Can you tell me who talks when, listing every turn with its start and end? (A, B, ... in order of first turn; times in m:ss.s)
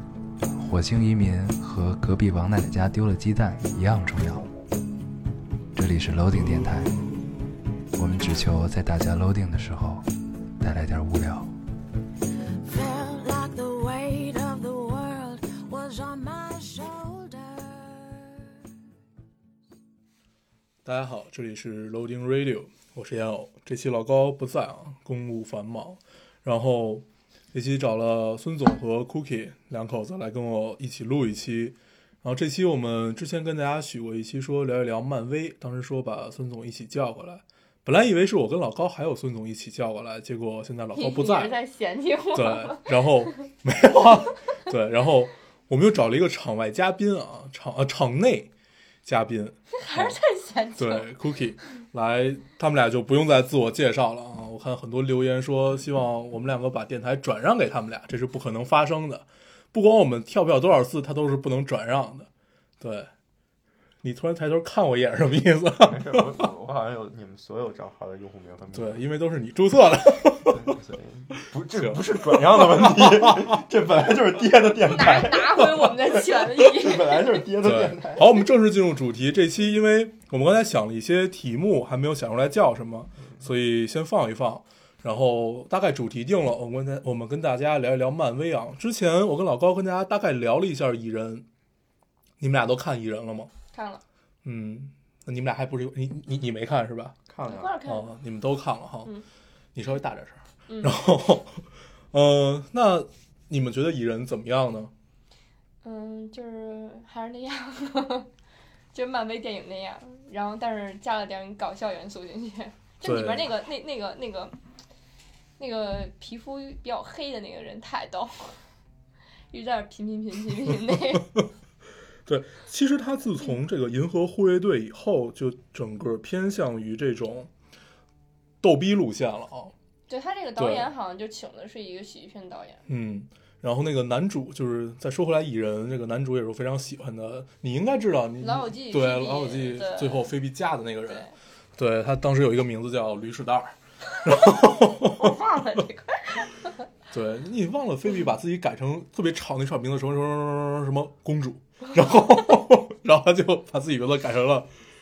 0:00.4-0:04.5 A
0:05.7-0:07.0 A
0:07.9-0:10.0 A
0:10.6-0:11.5 A
0:12.6-0:18.5 B
0:20.8-0:41.6 C
0:40.9-0:42.9 D
0:42.3-0:48.5 C
0:49.0-0:50.2 C
0:49.7-0:51.1 D
0:50.8-1:02.3 C
1:02.8-1:03.1 C
1:04.0-1:06.4 C
1:05.8-1:09.0 E
1:08.7-1:10.8 C
1:10.5-1:18.4 E
1:11.7-1:13.6 C
1:14.8-1:17.2 D
1:17.6-1:31.4 C
1:32.4-1:33.5 C
1:33.7-1:34.0 D
1:34.4-1:37.2 C
1:37.3-1:37.7 E
1:37.4-1:38.1 D
1:37.8-1:39.1 C
1:39.7-1:44.9 C
1:40.7-1:40.9 D
1:45.8-1:48.3 D
1:48.9-1:54.6 D
1:53.0-1:53.4 C
1:55.6-1:58.6 D
1:59.5-2:01.4 D
2:02.2-2:07.5 C
2:08.6-2:09.7 C
2:10.1-2:12.8 D
2:10.6-2:10.9 C
2:12.9-2:25.4 C
2:18.4-2:20.3 D
2:21.1-2:21.3 D
2:25.0-2:26.5 D
2:27.1-2:34.7 C